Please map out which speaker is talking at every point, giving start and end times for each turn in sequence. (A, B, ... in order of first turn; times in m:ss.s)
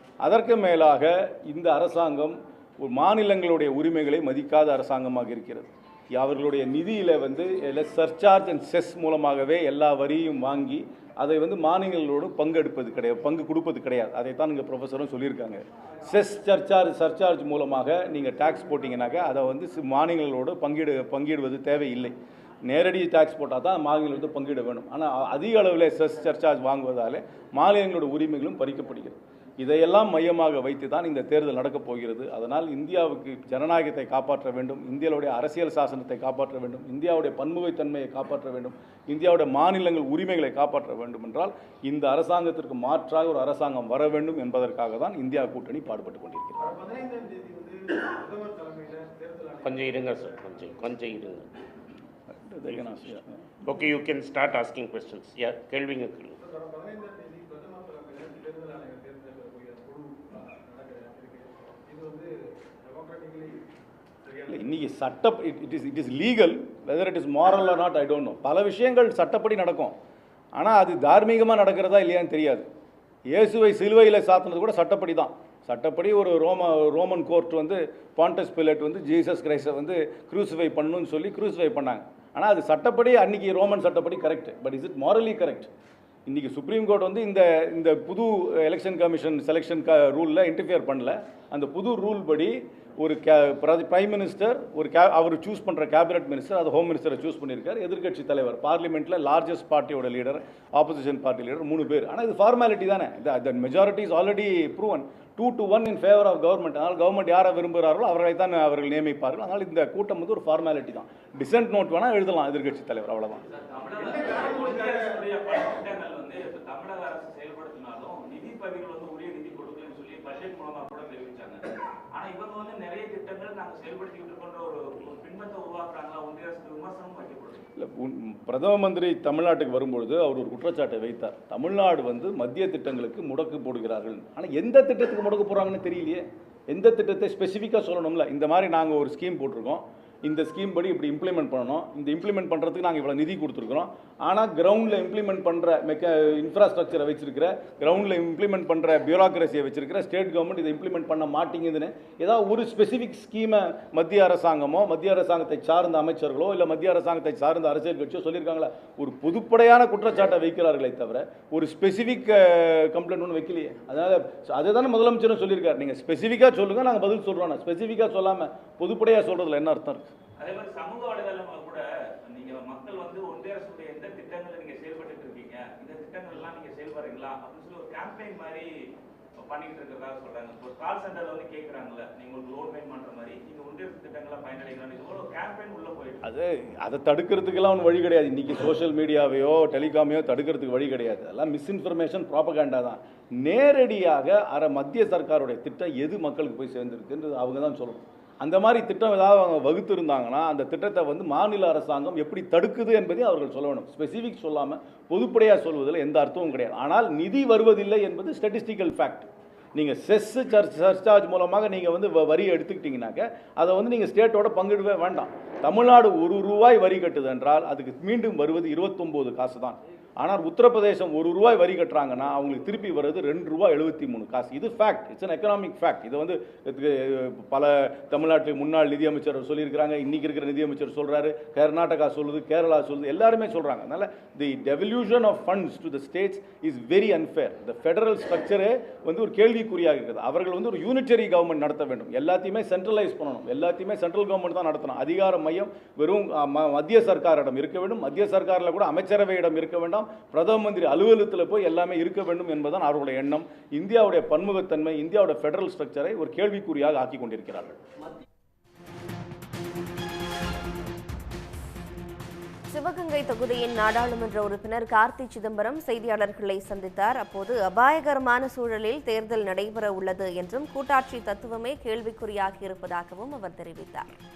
0:00.2-0:22.1 A
0:22.6-0:46.7 A
0:46.6-0:50.7 B
0:49.6-0:51.5 C
0:52.3-0:53.4 A
0:52.6-0:56.4 C
0:56.4-1:03.6 B
1:04.5-1:09.9 A
1:10.6-1:12.7 A
1:13.3-1:25.7 A
1:26.3-1:53.4 A
1:53.5-2:01.6 D
2:02.1-2:07.6 D
2:07.8-2:50.1 A
2:50.4-2:58.7 D
2:59.4-3:06.2 D
3:06.2-4:17.8 A
4:22.7-4:34.1 E